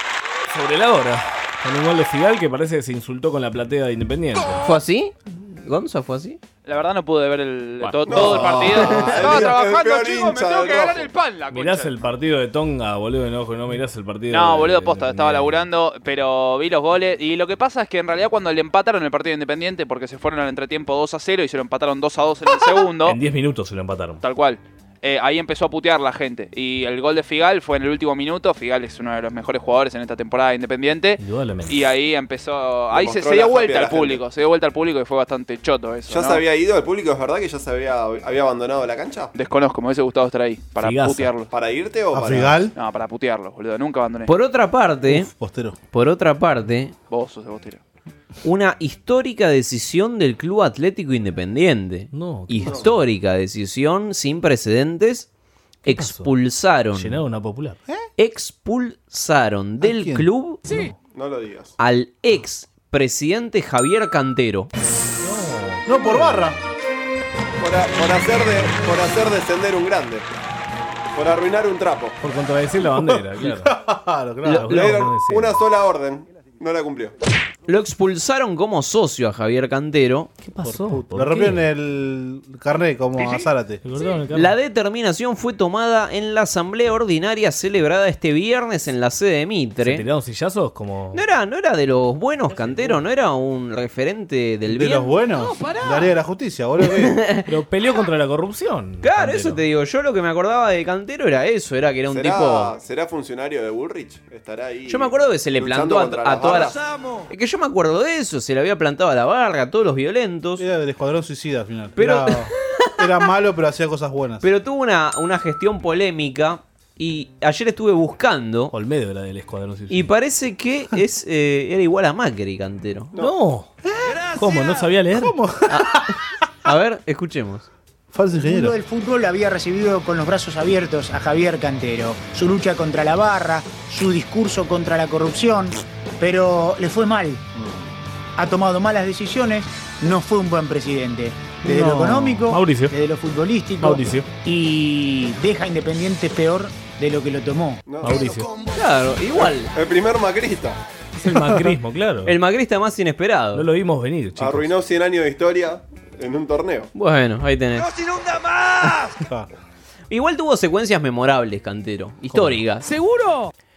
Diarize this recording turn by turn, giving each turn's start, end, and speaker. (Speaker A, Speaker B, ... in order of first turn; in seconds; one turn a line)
Speaker A: 0.5-4.6
Speaker B: 4.6-6.4
Speaker C: 6.6-12.0
Speaker D: 8.1-11.1
Speaker B: 8.5-9.2
Speaker A: 11.5-15.7
Speaker C: 14.3-23.2
Speaker A: 23.0-24.2
Speaker C: 24.2-36.4
Speaker A: 31.2-31.9
Speaker D: 32.9-34.2
Speaker D: 36.1-39.3
Speaker C: 39.3-41.5
Speaker A: 40.8-41.3
Speaker D: 41.5-42.7
Speaker E: 42.1-42.7
Speaker C: 42.8-44.3
Speaker B: 44.2-45.3
Speaker E: 45.1-45.8
Speaker B: 45.9-46.9
Speaker C: 47.1-47.8
Speaker B: 48.4-55.3
Speaker A: 52.1-52.9
Speaker B: 55.8-57.2
Speaker A: 55.9-56.3
Speaker A: 56.9-57.8
Speaker B: 58.2-60.6
Speaker E: 59.8-60.8
Speaker D: 61.1-61.7
Speaker B: 61.8-64.7
Speaker A: 65.2-66.5
Speaker E: 65.8-66.6
Speaker D: 67.6-70.3
Speaker D: 71.1-72.2
Speaker A: 72.2-73.7
Speaker E: 72.9-75.1
Speaker A: 74.4-75.6
Speaker D: 74.6-77.1
Speaker B: 77.7-80.3
Speaker A: 80.4-81.7
Speaker E: 80.6-83.8
Speaker A: 83.8-84.5
Speaker B: 84.3-90.0
Speaker A: 89.8-91.2
Speaker B: 91.1-95.1
Speaker A: 92.5-93.0
Speaker E: 94.7-97.2
Speaker B: 97.0-97.4
Speaker A: 97.5-99.6
Speaker B: 99.0-102.7
Speaker D: 102.1-106.8
Speaker B: 104.9-106.8
Speaker B: 107.3-110.6
Speaker E: 110.6-114.4
Speaker B: 112.0-112.9
Speaker B: 114.4-118.7
Speaker A: 118.7-120.1
Speaker B: 119.9-123.1
Speaker A: 123.2-123.7
Speaker E: 123.9-124.2
Speaker A: 124.3-125.3
Speaker E: 125.1-126.2
Speaker B: 125.7-127.7
Speaker E: 128.1-128.8
Speaker F: 128.4-137.5
Speaker F: 138.4-147.8
Speaker E: 141.6-142.4
Speaker A: 142.4-142.9
Speaker A: 143.8-144.3
Speaker D: 147.9-148.3
Speaker A: 148.0-148.5
Speaker B: 148.7-149.7
Speaker D: 149.7-150.8
Speaker A: 151.2-152.3
Speaker E: 151.3-151.6
Speaker B: 152.2-153.6
Speaker A: 153.5-154.7
Speaker D: 154.4-156.9
Speaker B: 156.9-157.9
Speaker E: 159.2-159.5
Speaker B: 160.1-162.9
Speaker A: 162.3-162.6